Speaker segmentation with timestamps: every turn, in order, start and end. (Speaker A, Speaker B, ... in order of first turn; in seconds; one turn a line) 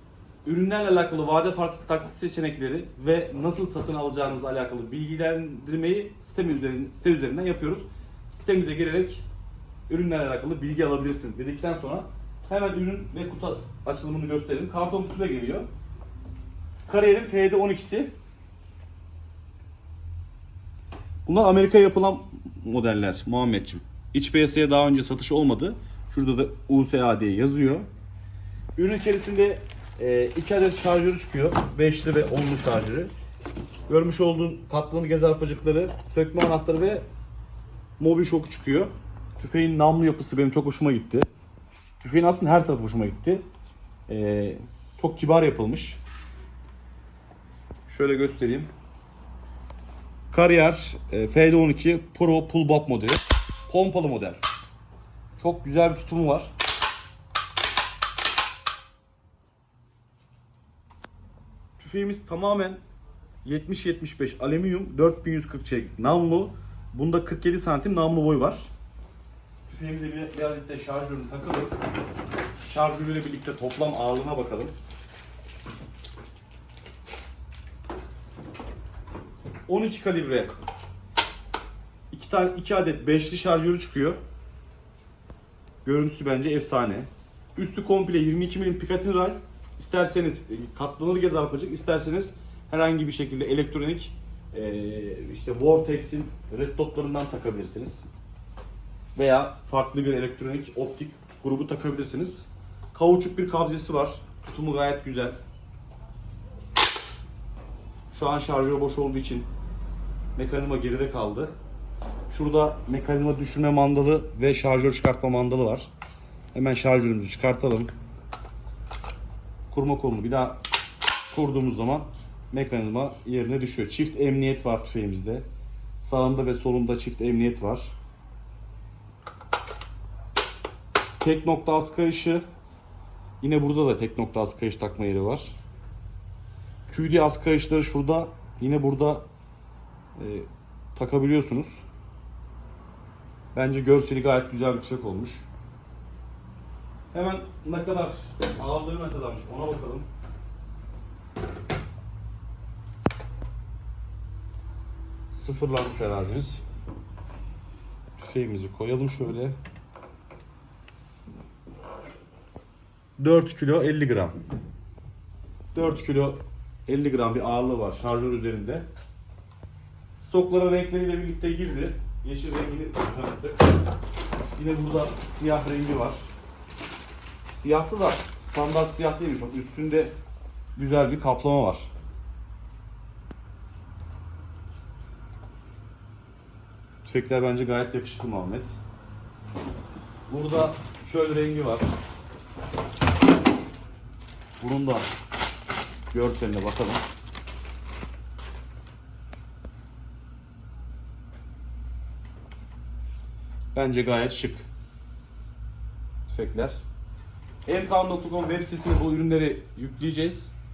Speaker A: 0.4-9.2
Speaker A: 9.9-15.7
Speaker A: 16.9-18.1
Speaker A: 21.2-27.9
Speaker A: 28.8-33.1
Speaker A: 33.9-37.0
Speaker A: 38.0-41.3
Speaker A: 42.0-43.4
Speaker A: 44.1-46.0
Speaker A: 47.9-48.7
Speaker A: 50.3-54.4
Speaker A: 55.4-56.5
Speaker A: 61.8-62.8
Speaker A: 63.4-68.7
Speaker A: 69.7-71.8
Speaker A: 72.6-74.7
Speaker A: 79.7-80.5
Speaker A: 82.1-84.2
Speaker A: 85.8-98.1
Speaker A: 99.1-105.4
Speaker A: 108.1-109.5
Speaker A: 110.3-111.5
Speaker A: 112.3-115.9
Speaker A: 116.5-117.9
Speaker A: 119.7-120.6
Speaker A: 121.3-125.4
Speaker A: 126.0-127.9
Speaker A: 131.2-132.4
Speaker A: 133.4-135.6
Speaker A: 136.9-139.2
Speaker A: 140.2-141.8
Speaker A: 143.5-145.5
Speaker A: 147.1-150.1
Speaker A: 155.3-156.6
Speaker A: 158.2-159.6
Speaker A: 163.2-164.4
Speaker A: 165.7-168.9
Speaker A: 170.2-173.7
Speaker A: 174.5-176.3
Speaker A: 177.5-180.1
Speaker A: 180.8-181.9
Speaker A: 187.0-188.8
Speaker A: 190.3-191.9
Speaker A: 194.6-195.1
Speaker A: 196.1-197.0
Speaker A: 203.7-204.7
Speaker A: 206.3-206.8
Speaker A: 207.7-210.5